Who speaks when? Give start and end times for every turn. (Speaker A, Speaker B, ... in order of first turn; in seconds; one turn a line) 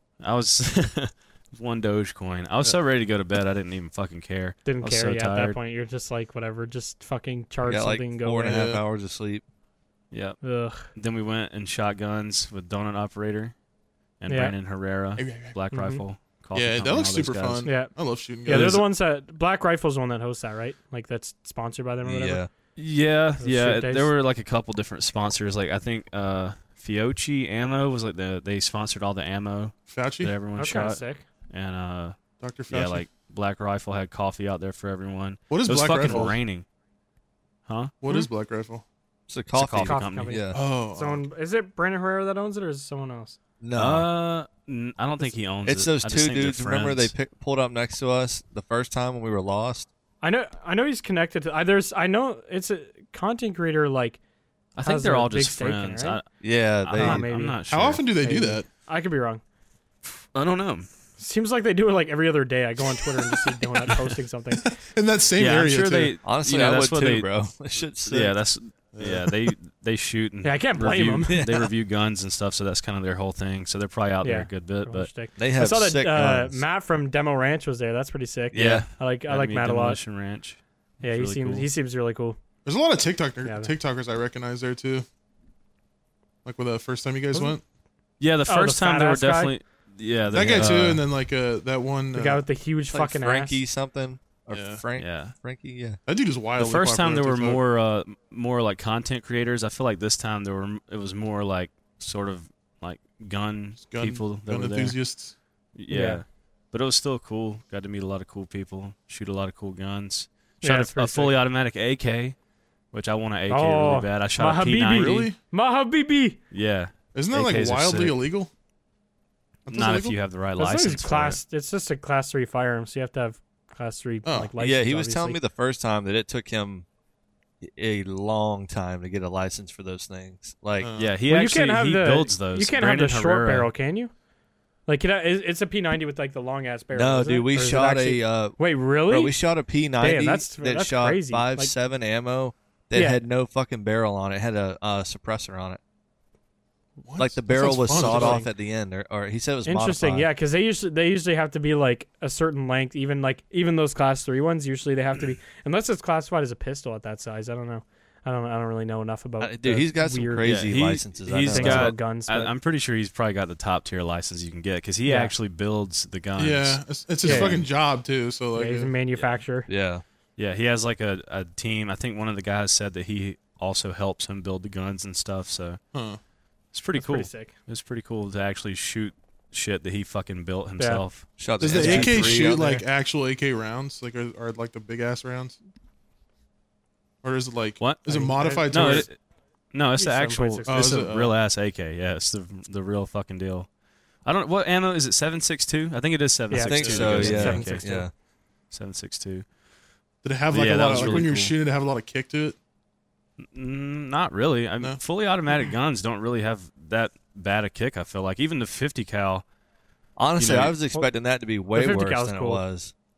Speaker A: 0.2-5.6
Speaker B: 4.6-8.6
Speaker C: 7.6-9.4
Speaker D: 8.4-8.8
Speaker A: 10.1-13.5
Speaker B: 10.4-10.9
Speaker A: 14.2-17.8
Speaker B: 14.3-14.5
Speaker D: 15.2-15.6
Speaker B: 15.7-16.0
Speaker D: 16.5-18.8
Speaker B: 17.6-17.9
Speaker B: 18.4-22.4
Speaker A: 18.5-18.8
Speaker C: 22.0-22.5
Speaker A: 22.8-32.2
Speaker B: 23.4-24.1
Speaker D: 29.9-30.3
Speaker B: 30.6-31.2
Speaker D: 32.4-33.0
Speaker A: 32.7-36.6
Speaker D: 35.5-36.4
Speaker A: 37.7-38.0
Speaker D: 38.0-38.8
Speaker C: 39.3-40.6
Speaker A: 39.5-40.4
Speaker B: 39.8-43.4
Speaker D: 40.5-41.2
Speaker C: 43.6-44.1
Speaker A: 43.8-47.1
Speaker C: 45.6-49.9
Speaker B: 50.2-54.2
Speaker A: 54.8-58.0
Speaker B: 54.8-56.2
Speaker C: 56.4-57.2
Speaker B: 57.0-57.6
Speaker D: 57.7-58.7
Speaker B: 58.2-59.4
Speaker A: 60.1-60.9
Speaker B: 61.2-64.7
Speaker D: 64.6-66.2
Speaker A: 65.4-67.3
Speaker C: 66.2-68.3
Speaker A: 68.1-75.1
Speaker D: 69.0-69.3
Speaker B: 70.4-71.4
Speaker C: 71.3-71.7
Speaker B: 74.2-80.0
Speaker C: 75.4-76.6
Speaker C: 78.5-78.8
Speaker A: 78.5-81.7
Speaker B: 81.0-82.4
Speaker D: 82.6-85.0
Speaker B: 83.4-83.7
Speaker D: 86.4-87.6
Speaker A: 88.2-91.0
Speaker B: 88.5-89.5
Speaker D: 90.3-92.4
Speaker B: 92.1-93.6
Speaker C: 92.9-96.0
Speaker D: 94.5-94.8
Speaker A: 95.0-95.3
Speaker D: 96.0-97.6
Speaker A: 96.6-105.0
Speaker D: 103.8-105.3
Speaker A: 105.8-112.3
Speaker B: 105.9-106.2
Speaker B: 110.6-111.4
Speaker A: 112.9-115.3
Speaker B: 113.5-116.4
Speaker D: 115.0-115.3
Speaker A: 116.5-118.2
Speaker D: 117.1-118.5
Speaker D: 119.7-120.2
Speaker A: 119.7-121.4
Speaker B: 120.6-125.4
Speaker D: 124.2-124.5
Speaker C: 124.6-126.8
Speaker C: 127.6-130.9
Speaker D: 130.8-131.1
Speaker A: 131.0-133.7
Speaker B: 131.3-134.1
Speaker B: 134.9-139.3
Speaker C: 136.9-145.8
Speaker B: 140.0-141.7
Speaker B: 142.9-143.2
Speaker D: 147.0-148.4
Speaker C: 147.2-150.3
Speaker B: 147.9-148.5
Speaker B: 149.7-160.6
Speaker C: 159.4-161.9
Speaker A: 160.4-167.6
Speaker B: 161.4-162.5
Speaker B: 165.1-165.3
Speaker D: 166.4-168.9
Speaker B: 167.2-167.6
Speaker B: 168.5-169.7
Speaker C: 169.7-170.0
Speaker A: 170.4-175.8
Speaker D: 175.9-176.2
Speaker A: 176.7-182.4
Speaker B: 177.0-177.5
Speaker C: 181.4-182.8
Speaker D: 181.6-185.6
Speaker D: 187.2-189.1
Speaker A: 187.8-189.2
Speaker B: 188.1-189.1
Speaker A: 189.7-193.7
Speaker B: 190.0-190.9
Speaker D: 190.7-191.3
Speaker A: 194.2-197.8
Speaker B: 196.5-198.1
Speaker C: 196.6-198.1
Speaker A: 198.7-199.4
Speaker D: 200.2-202.6
Speaker A: 200.5-201.5
Speaker C: 200.9-201.2
Speaker A: 203.5-209.4
Speaker C: 210.2-212.9
Speaker A: 210.4-210.7
Speaker B: 211.7-212.6